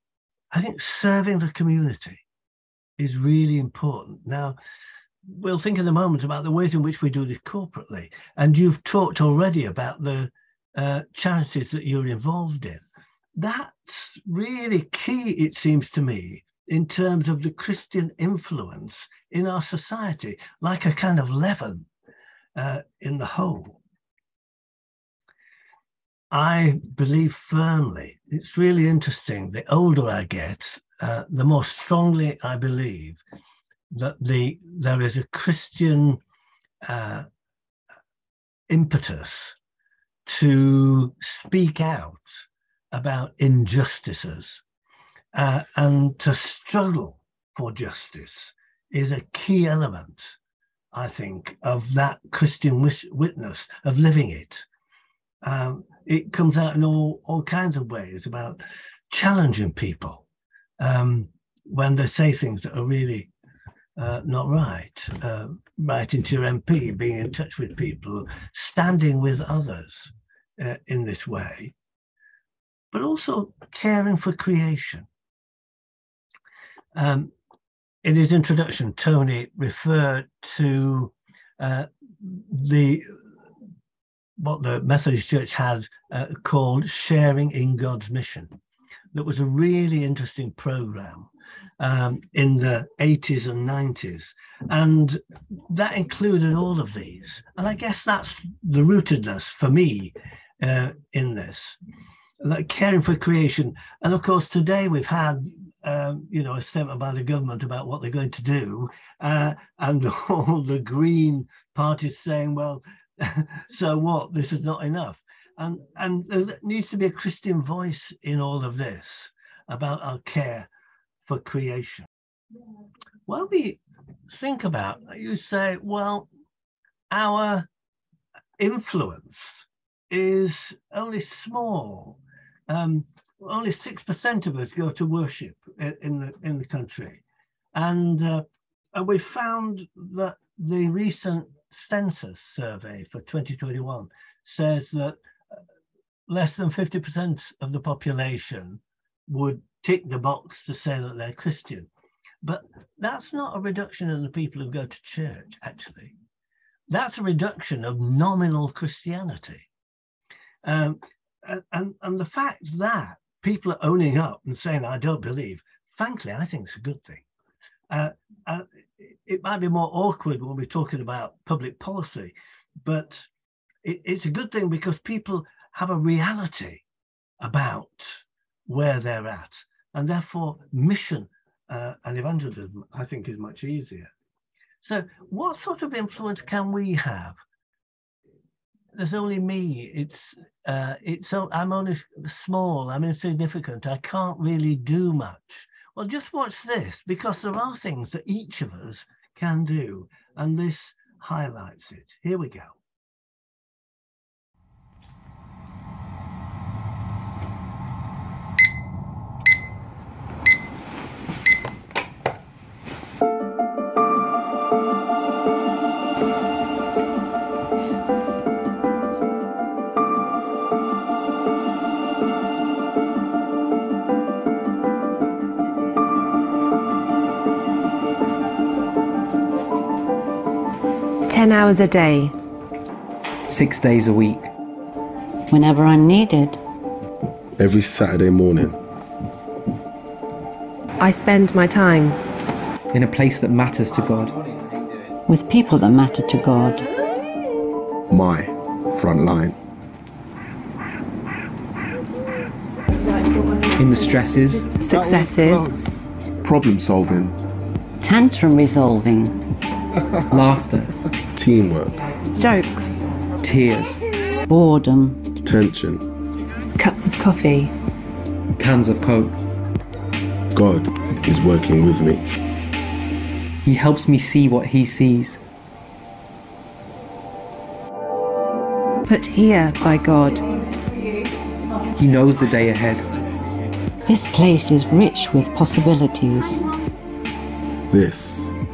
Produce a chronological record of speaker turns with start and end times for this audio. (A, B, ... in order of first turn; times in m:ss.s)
0:00.5-0:02.2 A
0:03.0-0:04.6 A
0:05.3-0:12.8 A
0:13.3-0:21.9 A
0:22.6-0:23.8 A
0:26.3-0:33.2 A
0:33.9-0:36.2 A
0:36.8-0:37.2 A
0:38.7-0:39.6 A
0:40.2-0:44.6 A
0:45.3-0:50.3 A
0:50.9-0:54.6 A
0:55.4-1:00.2 A
1:00.8-1:03.3 A
1:04.0-1:11.7 A
1:12.9-1:15.1 A
1:16.9-1:17.3 A
1:18.0-1:23.3 A
1:24.4-1:28.6 A
1:29.1-1:41.8 A
1:42.4-2:00.7 A
2:01.2-2:02.1 A
2:03.3-2:06.3 A
2:07.1-2:07.7 A
2:08.6-2:17.2 A
2:17.7-2:25.6 A
2:26.3-2:31.9 A
2:32.4-2:36.1 A
2:36.9-2:39.7 A
2:40.6-2:47.2 A
2:47.9-2:52.3 A
2:52.8-2:53.3 A
2:53.8-2:56.8 A
2:57.4-3:04.1 A
3:04.8-3:07.4 A
3:08.9-3:22.8 A
3:51.3-3:52.3 B
3:53.5-3:54.5 C
3:55.5-3:56.6 D
3:57.6-3:58.8 E
4:01.0-4:02.2 B
4:02.9-4:04.3 C
4:05.3-4:06.8 D
4:08.1-4:09.6 E
4:13.0-4:13.7 B
4:13.8-4:14.7 C
4:14.7-4:15.7 B
4:16.4-4:17.4 E
4:18.0-4:19.3 D
4:20.3-4:21.0 C
4:21.2-4:22.0 E
4:22.4-4:23.0 B
4:23.4-4:24.0 C
4:24.5-4:25.3 D
4:25.4-4:26.0 E
4:26.8-4:27.7 B
4:28.6-4:29.4 C
4:30.5-4:32.2 E
4:33.6-4:35.4 C
4:39.0-4:40.4 B
4:42.0-4:43.0 C
4:44.0-4:46.6 D
4:47.9-4:48.5 E